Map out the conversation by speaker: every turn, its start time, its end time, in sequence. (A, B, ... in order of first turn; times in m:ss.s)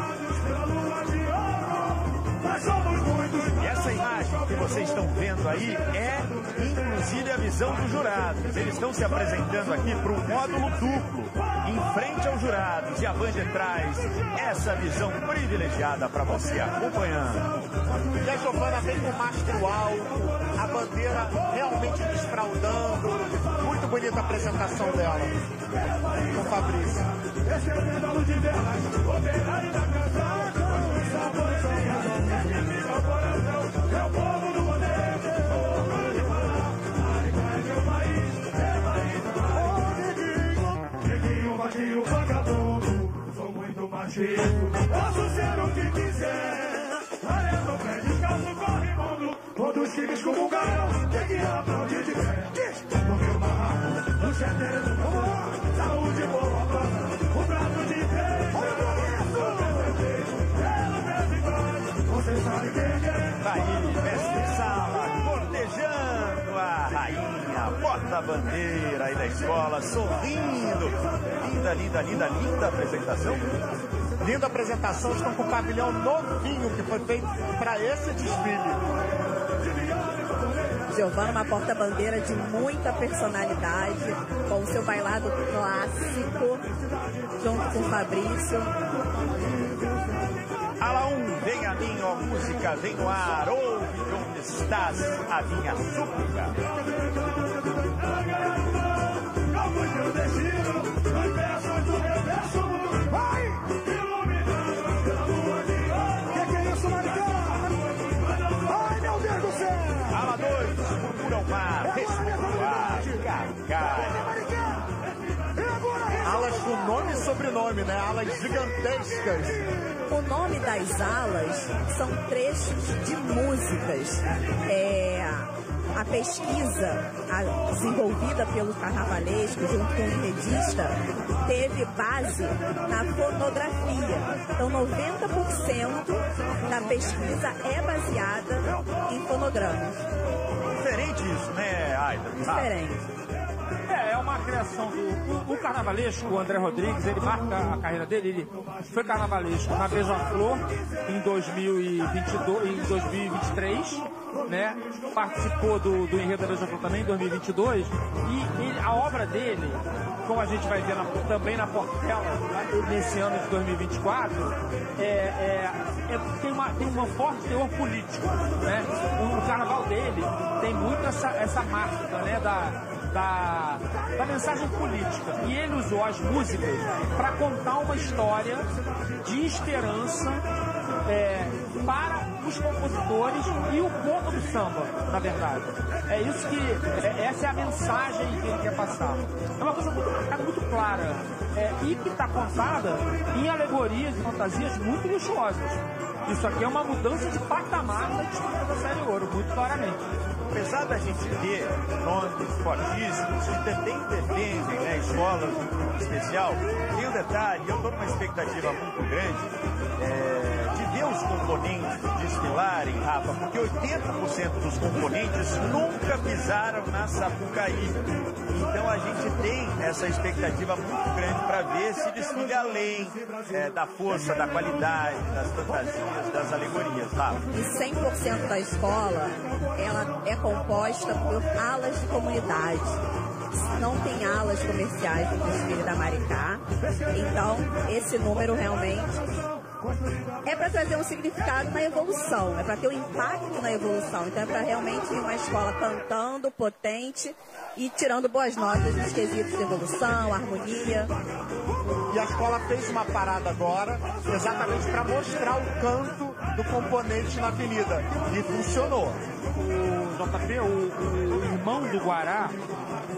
0:00.2-0:01.7 A
0:02.4-0:03.6 A
0:03.6-0:17.5 B
0:18.2-0:25.4 C
0:26.2-0:27.1 C
0:27.5-1:03.4 A
1:03.4-1:13.6 B
1:14.2-1:18.8 C
1:20.9-1:26.7 D
1:27.4-1:28.7 D
1:30.8-1:36.6 B
1:36.8-1:38.8 A
1:39.5-1:47.7 A
1:48.5-1:50.0 A
1:50.1-1:54.4 B
1:55.6-1:56.2 A
1:56.2-1:59.6 C
2:00.1-2:20.0 D
2:20.7-2:22.7 B
2:22.4-2:23.1 D
2:23.9-2:58.7 E
2:59.2-3:00.4 E
3:01.1-3:20.1 E
3:20.5-3:47.4 B
3:47.5-3:53.0 D
3:53.6-3:59.3 D
4:00.4-4:11.1 D
4:12.1-4:19.2 C
4:19.6-4:22.6 E